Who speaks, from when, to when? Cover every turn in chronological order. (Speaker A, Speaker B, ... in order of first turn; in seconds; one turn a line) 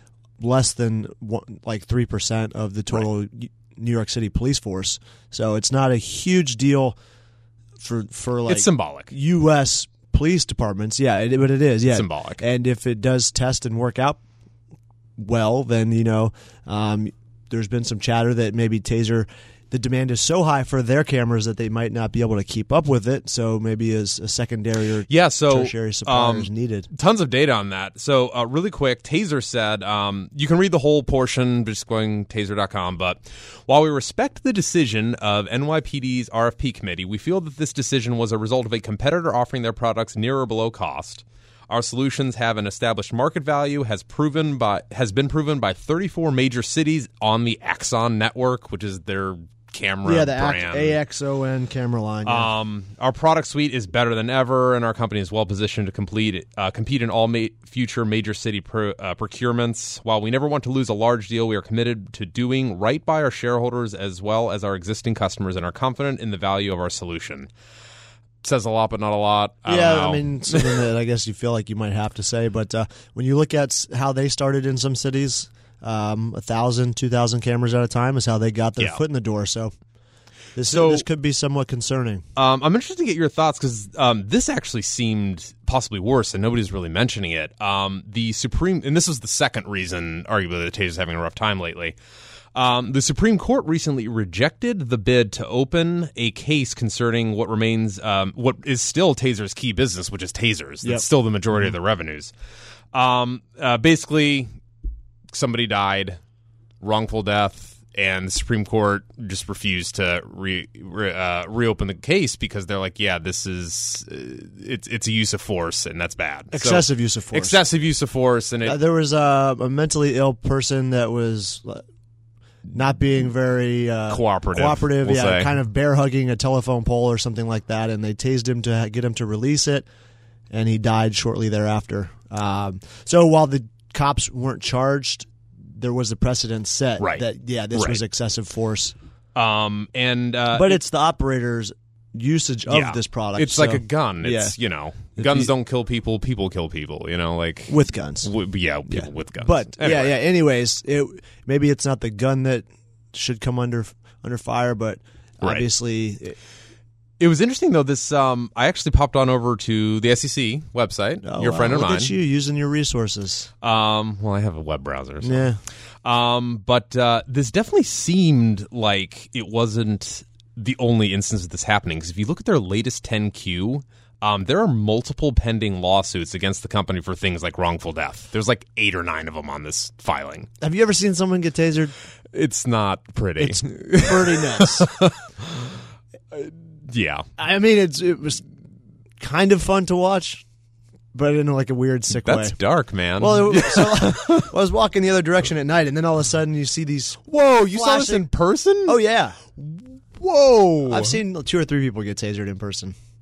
Speaker A: 0.4-7.0
Speaker A: 7.8-14.2
Speaker B: 8.5-9.1
Speaker B: 11.9-12.4
Speaker A: 15.2-26.9
Speaker B: 25.1-51.0
Speaker A: 50.0-52.5
Speaker B: 52.2-67.5
Speaker B: 68.4-70.8
Speaker A: 69.7-79.7
Speaker A: 80.6-82.2
Speaker B: 80.7-81.1
Speaker B: 82.4-92.0
Speaker B: 92.5-102.3
Speaker B: 102.9-104.5
Speaker B: 105.3-106.2
Speaker B: 106.8-118.8
Speaker A: 116.5-117.6
Speaker A: 118.6-121.8
Speaker A: 122.7-129.9
Speaker B: 124.1-125.5
Speaker A: 130.5-138.9
Speaker B: 137.7-138.0
Speaker B: 139.3-140.8
Speaker A: 140.5-144.6
Speaker B: 142.7-150.2
Speaker A: 145.2-145.5
Speaker A: 147.7-148.3
Speaker A: 148.9-156.4
Speaker B: 155.4-155.7
Speaker B: 157.2-162.1
Speaker A: 161.2-163.5
Speaker B: 163.6-165.5
Speaker A: 165.2-165.6
Speaker B: 166.0-180.5
Speaker A: 180.6-181.9
Speaker B: 182.3-185.7
Speaker A: 183.4-184.9
Speaker B: 186.3-187.3
Speaker A: 187.4-188.4
Speaker A: 189.2-190.4
Speaker A: 191.1-192.6
Speaker B: 192.1-194.5
Speaker A: 193.2-198.3
Speaker B: 197.3-199.0
Speaker A: 198.9-199.4
Speaker B: 199.6-201.2
Speaker A: 200.9-202.9